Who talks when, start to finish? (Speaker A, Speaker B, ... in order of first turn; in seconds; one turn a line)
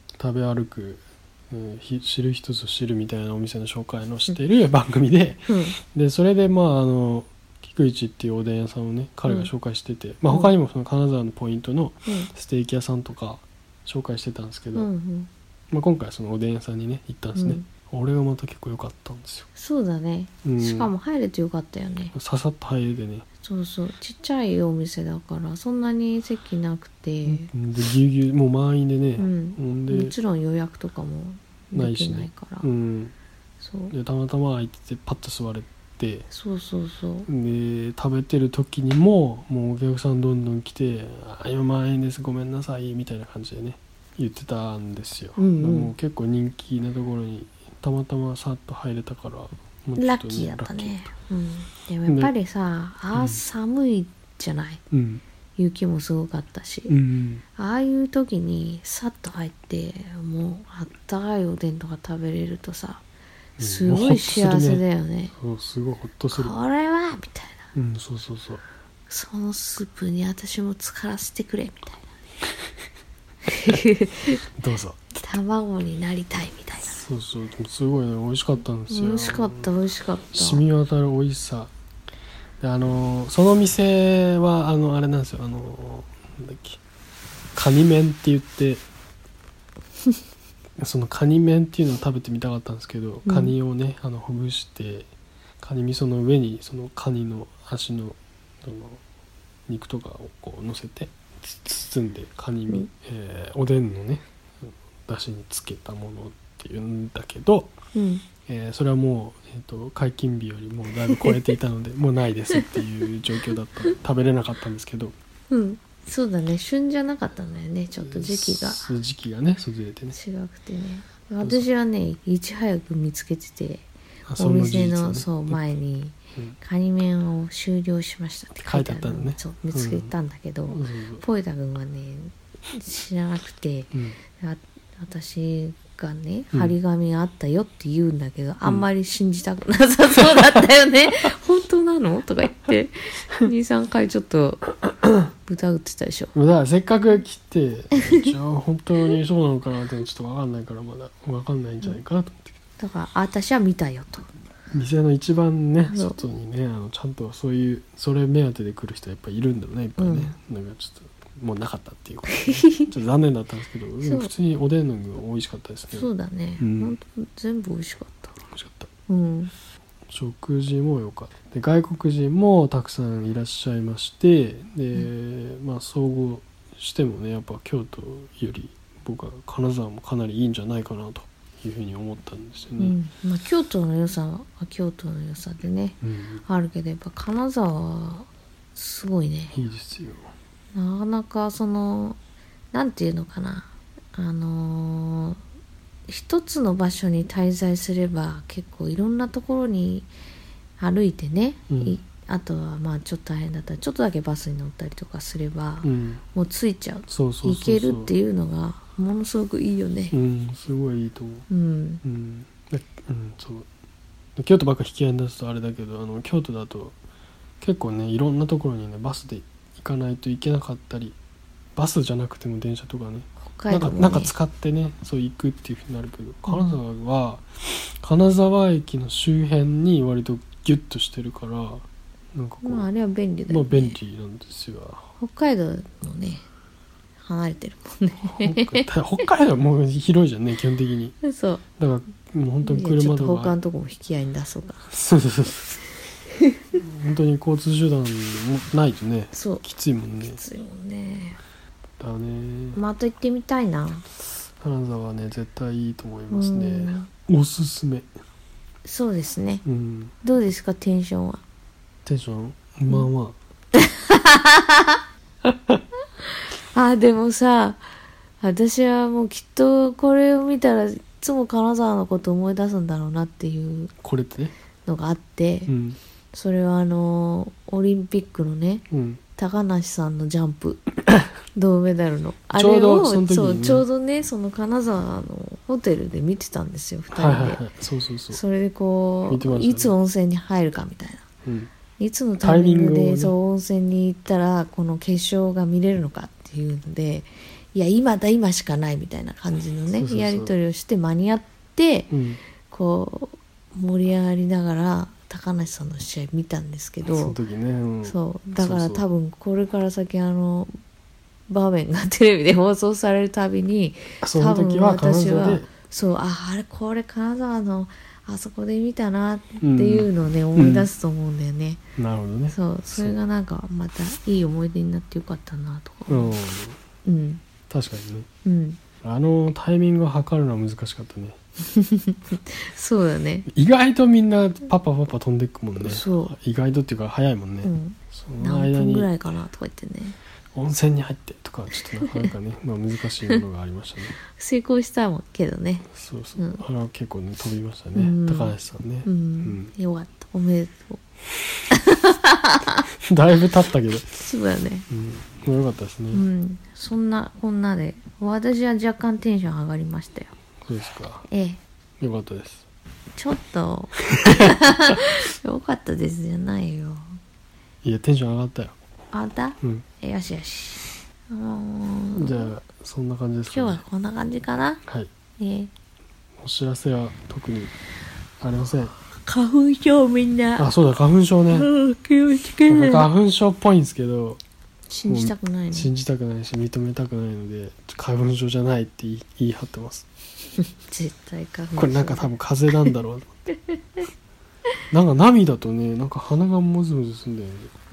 Speaker A: 0.2-14.9
Speaker B: 5.5-5.8
Speaker B: 14.8-15.3
Speaker A: 15.7-19.5
Speaker B: 17.4-17.7
Speaker B: 19.6-22.1
Speaker A: 20.4-20.9
Speaker A: 22.1-23.3
Speaker B: 23.4-27.5
Speaker A: 27.2-30.1
Speaker B: 29.2-32.7
Speaker A: 31.7-33.1
Speaker B: 33.6-33.9
Speaker A: 33.9-36.3
Speaker B: 36.3-37.3
Speaker A: 37.3-51.1
Speaker B: 45.4-45.9
Speaker B: 50.0-54.8
Speaker A: 52.1-52.3
Speaker A: 53.1-53.4
Speaker A: 54.9-55.2
Speaker B: 55.6-57.0
Speaker A: 56.9-57.4
Speaker B: 57.6-63.0
Speaker A: 63.6-66.5
Speaker B: 63.6-65.3
Speaker B: 66.3-67.7
Speaker A: 67.7-68.6
Speaker B: 69.1-72.1
Speaker B: 73.5-74.4
Speaker A: 74.6-75.3
Speaker B: 75.2-77.0
Speaker A: 76.9-79.7
Speaker B: 78.9-80.7
Speaker A: 80.3-81.7
Speaker A: 82.6-86.8
Speaker A: 87.5-88.8
Speaker A: 90.8-95.1
Speaker B: 93.3-93.5
Speaker A: 95.6-99.0
Speaker A: 99.7-107.7
Speaker B: 108.0-108.3
Speaker A: 108.5-115.2
Speaker B: 111.1-111.4
Speaker B: 112.6-112.8
Speaker B: 115.5-118.9
Speaker A: 118.0-120.2
Speaker B: 120.1-144.8
Speaker A: 124.3-125.6
Speaker A: 128.7-130.1
Speaker A: 130.7-131.2
Speaker A: 133.9-134.2
Speaker B: 145.4-146.3
Speaker A: 146.3-152.5
Speaker B: 152.8-154.3
Speaker A: 154.7-167.0
Speaker B: 155.8-156.2
Speaker B: 160.0-160.3
Speaker B: 162.3-162.9
Speaker B: 164.0-164.3
Speaker B: 165.9-168.4
Speaker A: 168.5-168.9
Speaker B: 169.1-169.5
Speaker A: 170.1-183.0
Speaker B: 182.8-189.6
Speaker A: 186.0-186.4
Speaker A: 189.5-190.3
Speaker B: 190.7-192.2
Speaker B: 192.7-195.4
Speaker B: 196.1-200.1
Speaker B: 200.8-210.2
Speaker A: 201.7-202.0
Speaker A: 205.8-206.2
Speaker A: 207.1-208.1
Speaker A: 210.1-211.5
Speaker B: 211.5-212.0
Speaker A: 212.0-213.7
Speaker A: 214.4-216.9
Speaker A: 217.6-221.2
Speaker A: 221.8-232.9
Speaker B: 223.4-224.3
Speaker B: 226.5-226.8
Speaker B: 232.6-234.0
Speaker A: 233.5-235.0
Speaker B: 235.2-236.4
Speaker B: 237.2-238.9
Speaker A: 238.2-241.2
Speaker B: 241.2-241.6
Speaker A: 241.8-243.6
Speaker B: 242.6-244.9
Speaker A: 244.9-245.8
Speaker B: 246.4-246.8
Speaker A: 246.8-250.4
Speaker B: 249.3-249.6
Speaker B: 250.2-251.4
Speaker A: 252.0-252.8
Speaker B: 252.8-254.1
Speaker A: 254.6-258.1
Speaker B: 256.3-257.1
Speaker B: 258.9-259.6
Speaker A: 259.6-260.1
Speaker B: 260.2-261.4
Speaker A: 262.1-263.4
Speaker B: 263.7-264.9
Speaker A: 265.4-265.8
Speaker B: 266.6-267.9
Speaker B: 268.4-273.9
Speaker A: 274.0-274.5
Speaker B: 274.9-275.7
Speaker A: 275.7-276.0
Speaker B: 276.3-280.9
Speaker A: 278.9-279.2
Speaker B: 281.5-287.6
Speaker A: 282.6-283.9
Speaker A: 287.1-288.4
Speaker B: 288.3-291.3
Speaker A: 289.3-289.9
Speaker A: 291.4-291.7
Speaker B: 292.0-302.1
Speaker A: 292.4-293.4
Speaker A: 299.9-300.5
Speaker A: 302.1-302.4
Speaker B: 302.6-307.4
Speaker A: 307.0-309.0
Speaker B: 308.1-310.7
Speaker B: 311.5-321.8
Speaker A: 314.2-315.7
Speaker A: 319.6-320.9
Speaker A: 322.0-323.2
Speaker B: 322.5-326.4
Speaker A: 326.1-326.8
Speaker B: 327.1-327.4
Speaker A: 327.7-328.3
Speaker B: 328.4-328.8
Speaker A: 329.0-331.4
Speaker B: 331.6-333.5
Speaker A: 333.5-339.1
Speaker B: 335.8-336.4
Speaker B: 337.6-340.2
Speaker A: 340.5-344.2
Speaker B: 344.3-346.6
Speaker A: 345.9-349.7
Speaker B: 347.9-351.0
Speaker B: 351.7-352.8
Speaker A: 353.1-354.2
Speaker B: 354.2-354.9
Speaker A: 354.9-356.2
Speaker B: 356.1-360.3
Speaker A: 360.6-361.3
Speaker B: 361.3-361.6
Speaker A: 362.0-362.7
Speaker B: 363.2-367.2
Speaker A: 367.8-368.8
Speaker B: 369.1-372.5
Speaker A: 372.1-373.8
Speaker B: 373.5-374.8
Speaker B: 375.4-375.7
Speaker A: 376.4-377.7
Speaker A: 378.4-379.0
Speaker B: 379.1-380.7
Speaker A: 380.6-381.7
Speaker B: 381.5-383.1
Speaker A: 382.7-384.4
Speaker B: 384.9-385.9
Speaker A: 385.1-390.1
Speaker B: 390.8-392.3
Speaker A: 391.8-393.3
Speaker A: 394.9-397.7